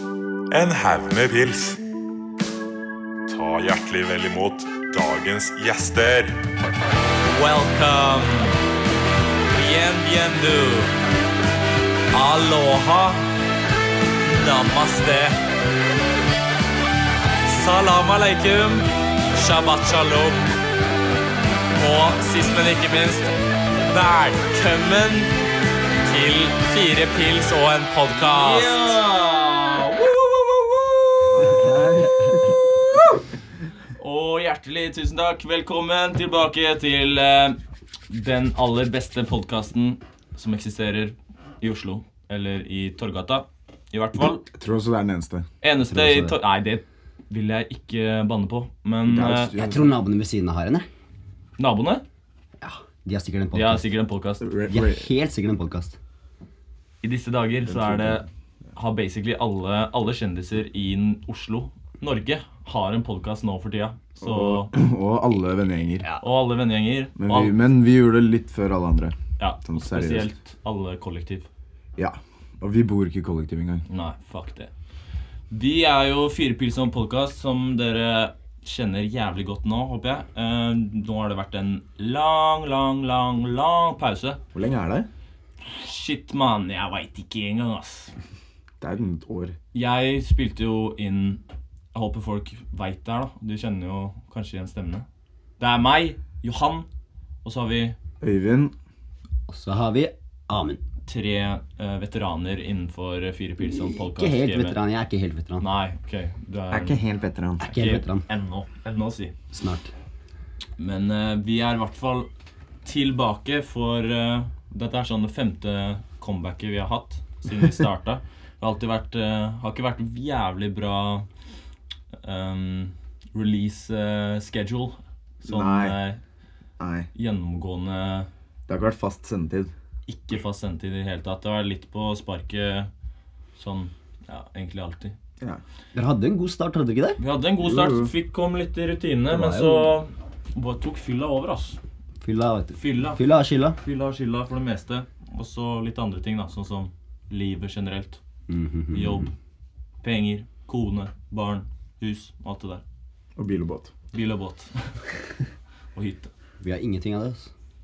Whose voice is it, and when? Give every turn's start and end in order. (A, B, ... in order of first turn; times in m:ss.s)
0:00.5-0:01.8 A
0:03.3-0:06.4 A
0:07.2-0:08.6 B
0:09.5-0:11.0 B
0:12.1-0:13.3 B
0:14.2-0:15.4 B
0:17.5-0:20.6 B
0:21.8-0:23.3 B
0:23.8-0:25.4 B
0:26.0-0:32.5 B
0:31.5-0:32.0 C
0:34.0-0:37.6 B
0:38.1-0:44.4 B
0:44.5-0:45.5 C
0:45.6-0:49.5 B
0:45.9-0:46.4 D
0:49.1-0:49.9 C
0:49.5-0:50.9 D
0:51.6-0:52.0 B
0:52.6-0:53.9 D
0:53.5-0:54.5 B
0:54.4-0:55.1 C
0:54.7-0:56.0 D
0:57.0-0:58.2 B
0:57.7-0:58.2 C
0:58.8-1:04.7 B
1:04.2-1:06.1 C
1:06.2-1:07.5 B
1:07.2-1:10.3 C
1:09.4-1:11.5 B
1:12.0-1:13.8 C
1:13.9-1:14.7 B
1:15.5-1:24.4 B
1:24.5-1:25.1 C
1:25.6-1:28.1 B
1:28.8-1:29.6 C
1:29.7-1:31.4 B
1:31.9-1:35.0 B
1:35.6-1:36.9 B
1:37.4-1:38.0 B
1:38.2-1:38.7 C
1:39.5-1:40.8 D
1:41.1-1:44.8 B
1:43.6-1:45.6 D
1:45.6-1:47.0 B
1:46.7-1:47.6 C
1:47.6-1:48.2 D
1:47.6-1:49.3 B
1:49.5-1:49.9 D
1:50.8-1:52.3 B
1:52.8-2:01.3 B
2:02.2-2:06.2 B
2:05.4-2:06.0 C
2:06.8-2:07.1 C
2:07.1-2:08.3 B
2:08.7-2:09.7 C
2:10.1-2:12.9 B
2:13.6-2:15.1 B
2:15.9-2:17.2 D
2:17.2-2:21.8 B
2:17.6-2:18.1 C
2:19.3-2:19.9 D
2:22.2-2:23.8 D
2:22.8-2:23.2 B
2:23.8-2:28.2 B
2:28.5-2:29.3 D
2:28.9-2:29.3 B
2:30.0-2:32.8 B
2:33.4-2:33.9 C
2:34.1-2:35.1 B
2:36.0-2:36.3 B
2:36.6-2:37.5 D